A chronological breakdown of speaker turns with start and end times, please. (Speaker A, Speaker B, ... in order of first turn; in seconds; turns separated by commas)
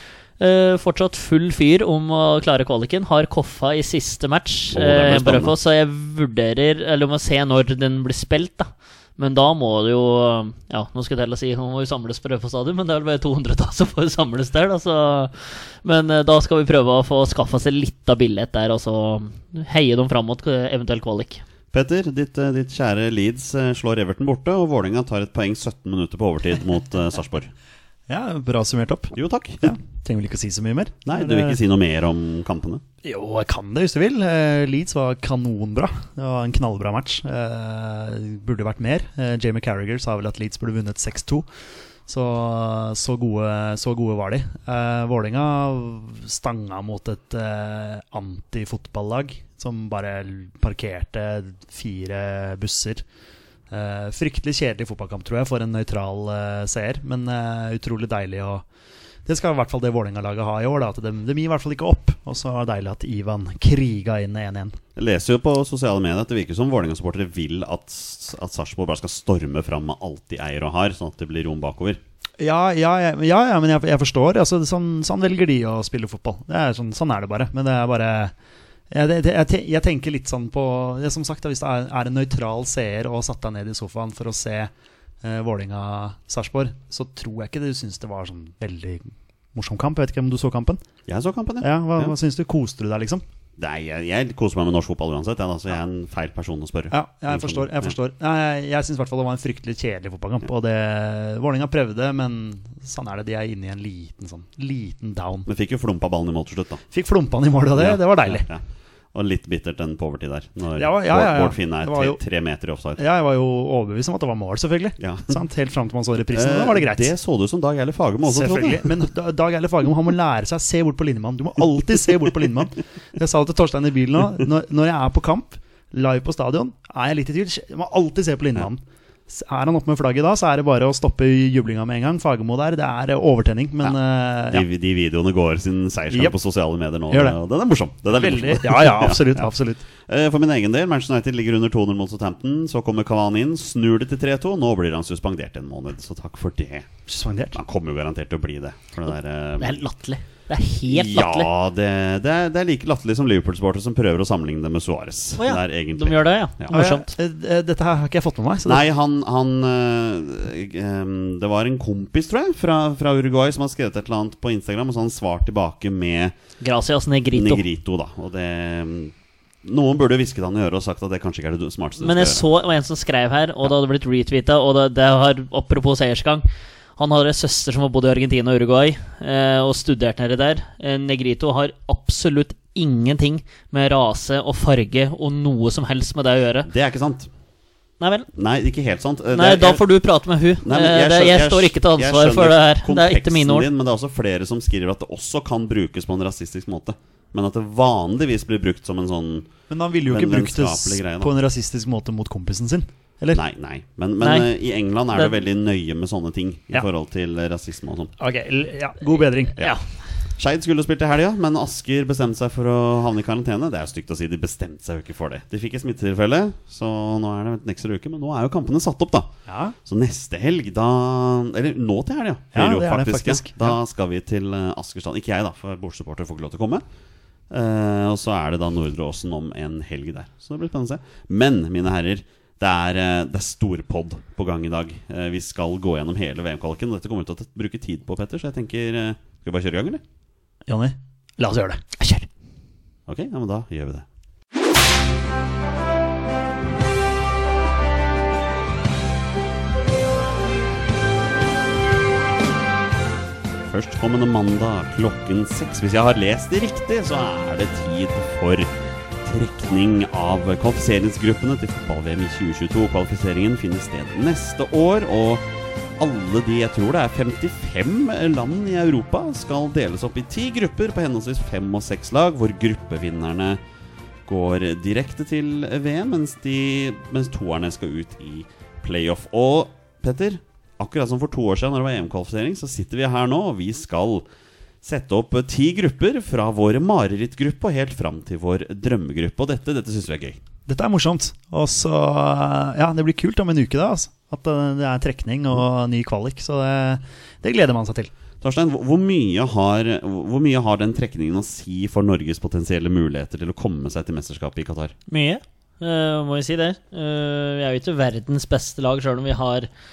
Speaker A: 0.4-21.4, Speaker B: 4.7-5.5, Speaker B: 21.7-27.5, Speaker C: 28.1-31.6, Speaker B: 29.1-29.8, Speaker B: 31.1-32.8, Speaker C: 33.0-41.5, Speaker C: 42.1-53.0, Speaker C: 53.7-58.6, Speaker C: 59.3-64.8, Speaker B: 65.0-72.0, Speaker C: 72.4-78.3, Speaker C: 78.9-90.8, Speaker B: 91.1-92.1, Speaker C: 91.6-93.2, Speaker B: 93.6-97.9, Speaker C: 96.9-105.5, Speaker B: 105.5-106.8, Speaker C: 106.9-108.5, Speaker B: 107.8-108.6, Speaker B: 109.1-113.0, Speaker C: 110.8-112.2, Speaker C: 113.0-117.1, Speaker B: 115.0-115.3, Speaker B: 116.3-119.0, Speaker C: 118.3-134.7, Speaker B: 134.5-139.4, Speaker C: 137.1-137.4, Speaker C: 138.1-139.8, Speaker B: 140.0-146.9, Speaker C: 147.1-147.6, Speaker B: 147.5-149.8, Speaker A: 149.6-151.5, Speaker B: 150.9-156.7, Speaker A: 155.4-157.1, Speaker C: 156.7-158.8, Speaker B: 158.7-166.3, Speaker A: 166.6-167.7, Speaker B: 167.3-172.5, Speaker A: 172.0-186.7, Speaker B: 186.6-187.3, Speaker A: 188.0-188.3, Speaker B: 188.3-189.8, Speaker A: 189.3-193.7, Speaker B: 190.6-199.5, Speaker C: 199.7-203.4, Speaker B: 200.1-201.3, Speaker B: 203.3-208.1, Speaker A: 204.2-204.5, Speaker C: 208.2-209.6, Speaker B: 210.4-219.3, Speaker C: 219.5-219.8, Speaker B: 219.8-226.8, Speaker C: 222.5-223.8, Speaker B: 227.5-240.0, Speaker C: 240.7-241.8, Speaker A: 242.0-242.3, Speaker B: 243.1-244.1, Speaker B: 253.6-258.7, Speaker B: 259.2-265.4, Speaker B: 266.0-273.6, Speaker B: 274.3-284.2, Speaker B: 284.8-290.4, Speaker C: 290.7-298.1, Speaker B: 298.4-304.9, Speaker A: 305.1-309.7